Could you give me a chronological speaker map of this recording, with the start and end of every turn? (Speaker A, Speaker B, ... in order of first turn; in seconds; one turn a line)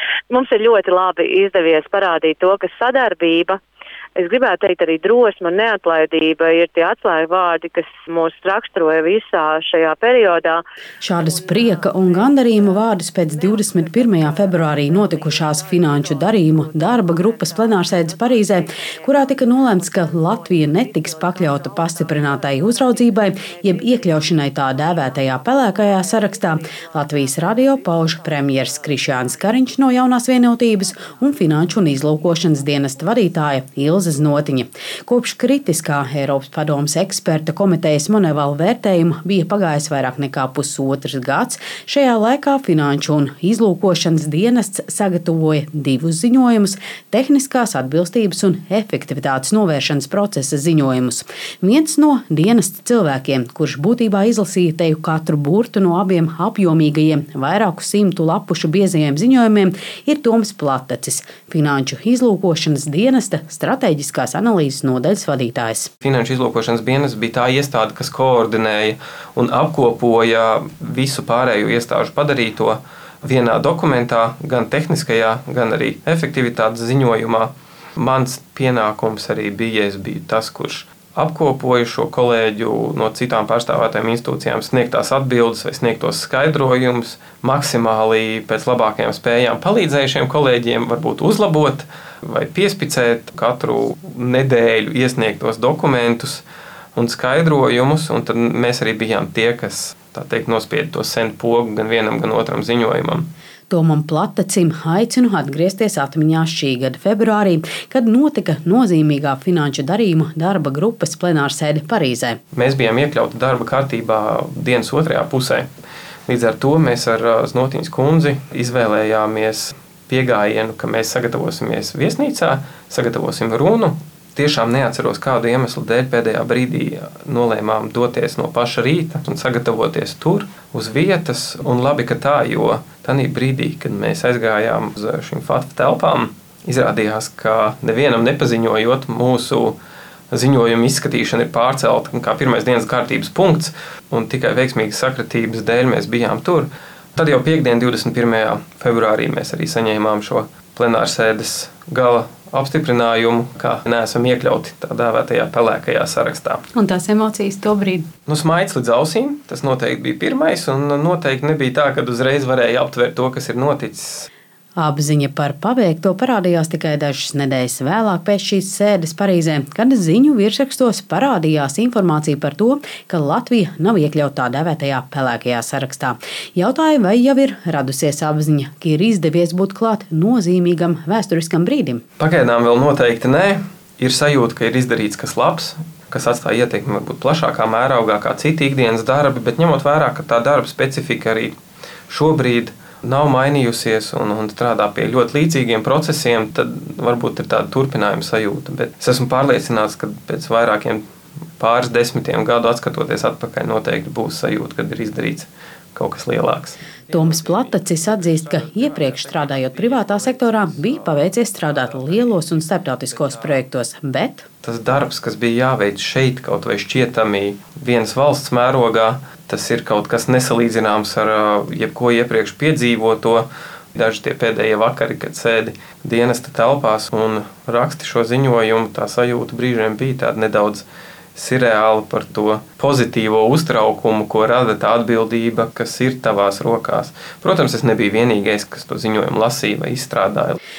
Speaker A: 0.3-3.6
Speaker A: 4.2-10.6
Speaker B: 11.0-65.9
Speaker C: 66.0-103.3
Speaker B: 103.7-112.4
Speaker C: 112.5-115.7
Speaker C: 116.3-139.8
Speaker C: 140.3-156.6
Speaker B: 156.7-158.1
Speaker C: 158.3-164.3
Speaker B: 164.8-182.0
Speaker C: 182.2-191.6
Speaker C: 192.1-201.1
Speaker C: 201.6-210.9
Speaker B: 207.1-214.5
Speaker C: 211.8-212.3
Speaker C: 214.6-240.6